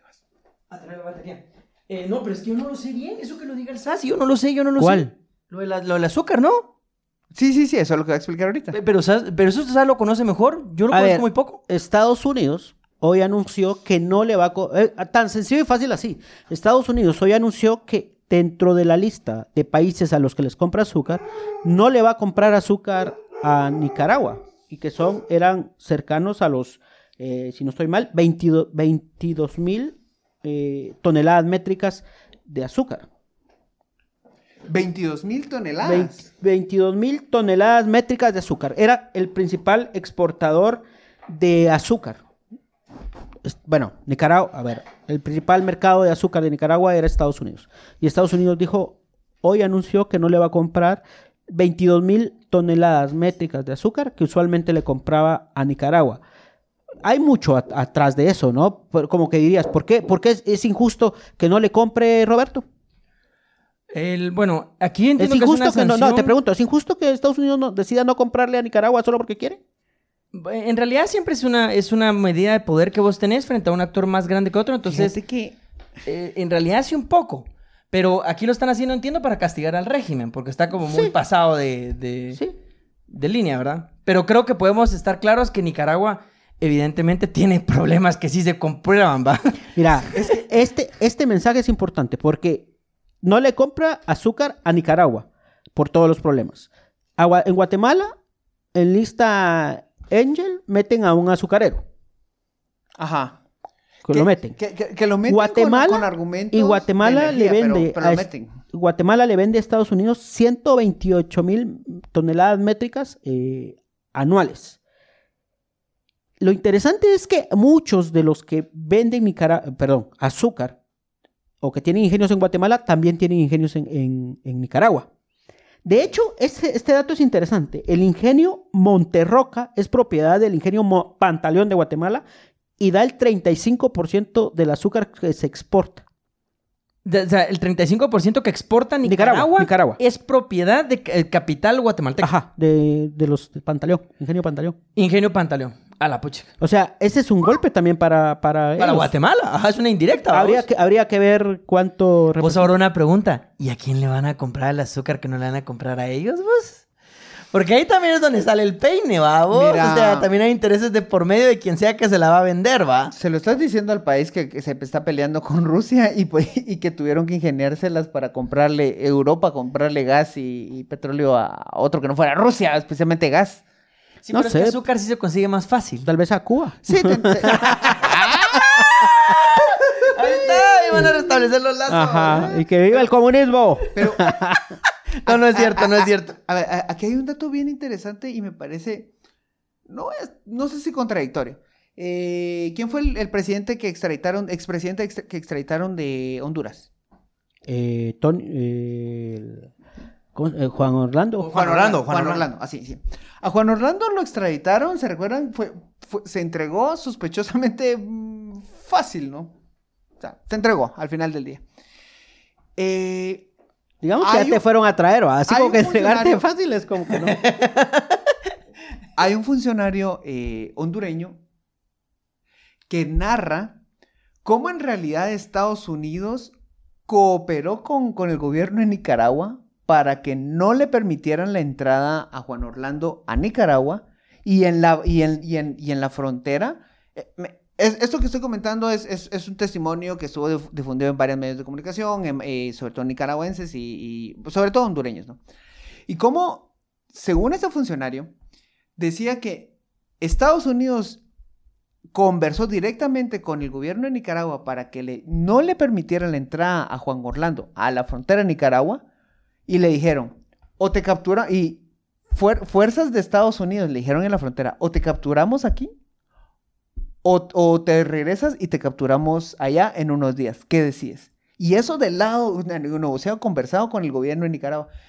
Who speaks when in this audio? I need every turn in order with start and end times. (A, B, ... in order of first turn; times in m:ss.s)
0:00.7-0:06.7 A
0:04.8-0:05.1 B
0:07.3-0:08.8 C
0:08.7-0:11.6 A
0:10.9-0:33.1 B
0:34.7-0:36.2 C
0:35.8-0:42.2 B
0:43.4-0:56.2 B
0:57.0-1:02.6 B
1:03.9-1:06.3 A
1:05.2-1:09.6 B
1:10.3-1:15.2 A
1:14.9-1:15.6 C
1:16.0-1:22.4 A
1:20.9-1:21.1 B
1:23.1-1:29.7 A
1:29.8-1:32.7 B
1:33.2-1:38.1 B
1:38.7-1:41.8 B
1:43.0-1:43.4 C
1:44.0-1:44.6 B
1:44.1-1:48.6 C
1:45.3-1:54.8 B
1:56.4-2:00.8 B
2:01.6-2:05.1 B
2:05.8-2:12.2 B
2:12.8-2:16.0 B
2:17.0-2:22.3 A
2:19.0-2:20.0 B
2:22.2-2:24.8 B
2:25.0-2:26.5 A
2:26.6-2:29.1 B
2:28.8-2:30.6 A
2:30.3-2:32.7 B
2:32.4-2:36.9 A
2:37.5-2:43.1 A
2:39.5-2:40.3 C
2:43.1-2:53.6 C
2:54.2-2:56.1 A
2:54.3-2:54.8 B
2:56.0-2:58.0 B
2:56.8-2:58.6 C
2:57.5-2:58.0 A
2:58.7-3:02.6 A
2:58.8-2:59.4 B
3:01.9-3:04.8 B
3:04.0-3:04.3 C
3:05.2-3:06.4 A
3:05.2-3:09.1 C
3:09.9-3:16.9 C
3:17.7-3:19.7 B
3:20.4-3:21.6 B
3:21.4-3:22.4 A
3:21.5-3:29.5 C
3:30.2-3:31.6 C
3:32.8-3:33.5 C
3:34.0-3:37.4 B
3:34.2-3:34.6 C
3:35.5-3:36.4 C
3:37.1-3:38.1 A
3:39.2-3:41.4 C
3:42.9-3:43.8 C
3:44.4-3:46.5 C
3:47.1-4:05.4 C
4:06.1-4:08.3 C
4:09.0-4:11.2 C
4:12.1-4:19.0 C
4:19.7-4:25.9 C
4:27.2-4:34.9 C